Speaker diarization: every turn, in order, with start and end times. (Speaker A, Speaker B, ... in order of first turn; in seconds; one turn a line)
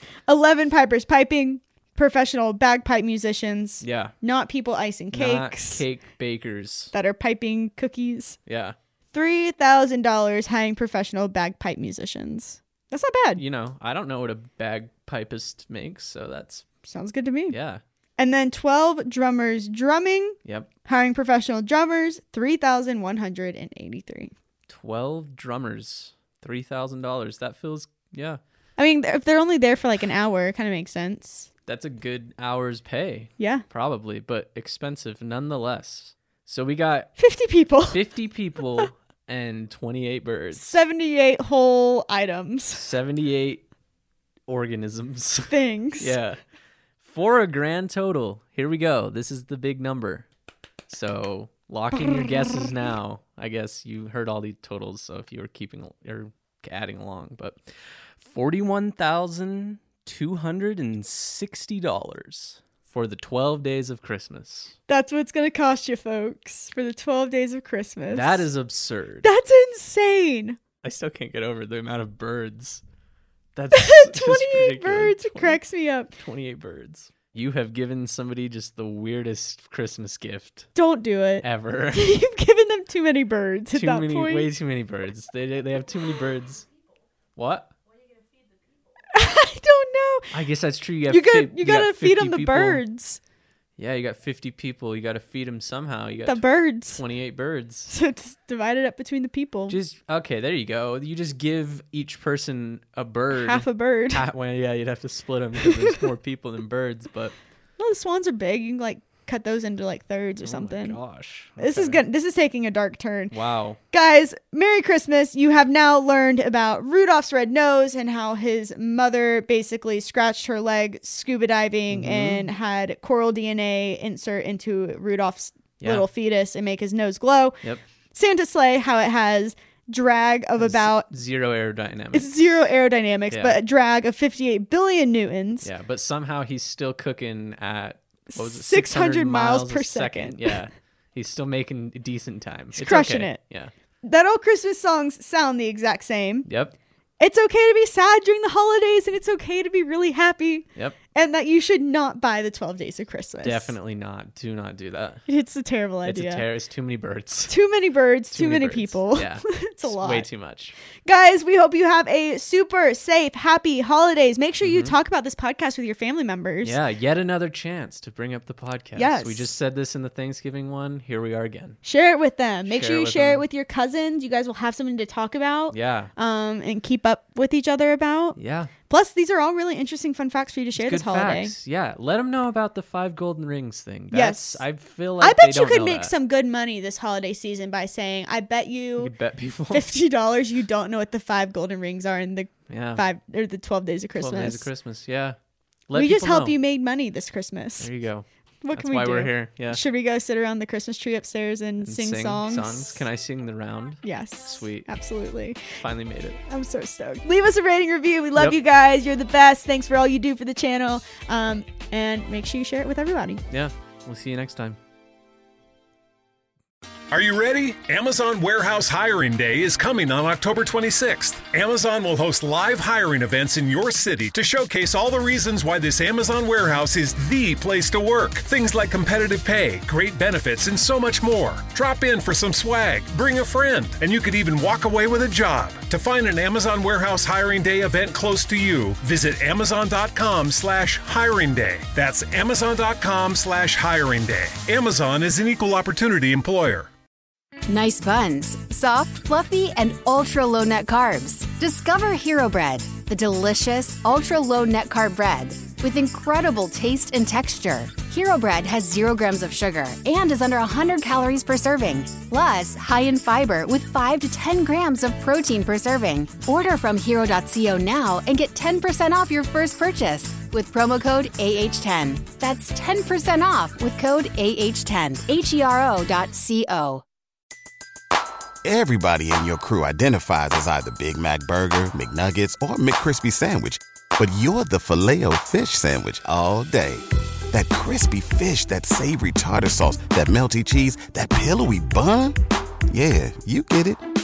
Speaker A: 0.2-5.8
Speaker B: 3.8-4.1
Speaker B: 5.1-6.9
Speaker A: 6.9-8.4
Speaker B: 8.5-8.8
Speaker A: 9.1-13.4
Speaker B: 13.3-16.7
Speaker A: 16.9-17.6
Speaker B: 17.5-17.8
Speaker A: 18.2-24.3
Speaker B: 24.7-28.4
Speaker A: 28.8-31.5
Speaker B: 31.7-37.1
Speaker A: 33.4-33.6
Speaker A: 37.2-38.0
Speaker B: 37.9-40.7
Speaker A: 40.5-42.8
Speaker B: 42.7-43.6
Speaker B: 44.5-46.4
Speaker A: 45.5-46.1
Speaker B: 47.0-50.2
Speaker B: 50.9-57.6
Speaker B: 58.2-64.8
Speaker A: 64.9-68.5
Speaker B: 68.1-69.3
Speaker A: 69.2-70.6
Speaker B: 70.8-72.8
Speaker B: 73.5-75.6
Speaker A: 73.7-76.1
Speaker B: 76.2-80.7
Speaker A: 80.7-84.5
Speaker B: 81.4-82.2
Speaker B: 83.7-86.7
Speaker B: 87.3-87.7
Speaker A: 89.1-90.3
Speaker B: 90.3-92.8
Speaker A: 91.1-93.2
Speaker B: 93.8-97.9
Speaker A: 96.2-97.0
Speaker A: 97.9-99.8
Speaker B: 99.7-107.3
Speaker A: 103.3-104.2
Speaker A: 107.8-111.0
Speaker B: 110.4-112.0
Speaker A: 111.6-113.3
Speaker B: 113.3-113.8
Speaker A: 113.9-127.6
Speaker B: 121.9-122.5
Speaker A: 128.1-131.1
Speaker B: 130.6-132.6
Speaker A: 132.1-135.7
Speaker B: 133.3-133.6
Speaker B: 135.6-143.7
Speaker A: 138.3-140.6
Speaker A: 142.7-143.4
Speaker A: 144.0-146.5
Speaker B: 146.4-146.7
Speaker A: 147.2-153.7
Speaker B: 153.4-155.2
Speaker A: 155.3-156.4
Speaker B: 156.0-157.5
Speaker A: 157.5-160.3
Speaker B: 158.3-160.7
Speaker A: 161.1-166.8
Speaker B: 164.6-164.9
Speaker B: 166.6-171.8
Speaker A: 168.9-169.5
Speaker A: 171.8-178.4
Speaker B: 172.7-173.4
Speaker B: 175.7-176.1
Speaker B: 178.3-178.7
Speaker A: 178.9-181.5
Speaker B: 180.7-186.1
Speaker A: 184.1-184.6
Speaker A: 185.2-189.1
Speaker B: 189.0-189.8
Speaker A: 189.7-194.7
Speaker B: 192.7-193.0
Speaker B: 194.2-195.4
Speaker B: 195.9-196.5
Speaker A: 195.9-197.9
Speaker B: 197.8-199.8
Speaker A: 198.6-203.0
Speaker B: 201.8-204.9
Speaker A: 204.0-205.8
Speaker B: 205.8-206.4
Speaker A: 206.5-213.4
Speaker B: 213.5-214.8
Speaker C: 217.1-246.9
Speaker D: 247.7-277.0
Speaker E: 278.6-292.4
Speaker E: 292.9-294.0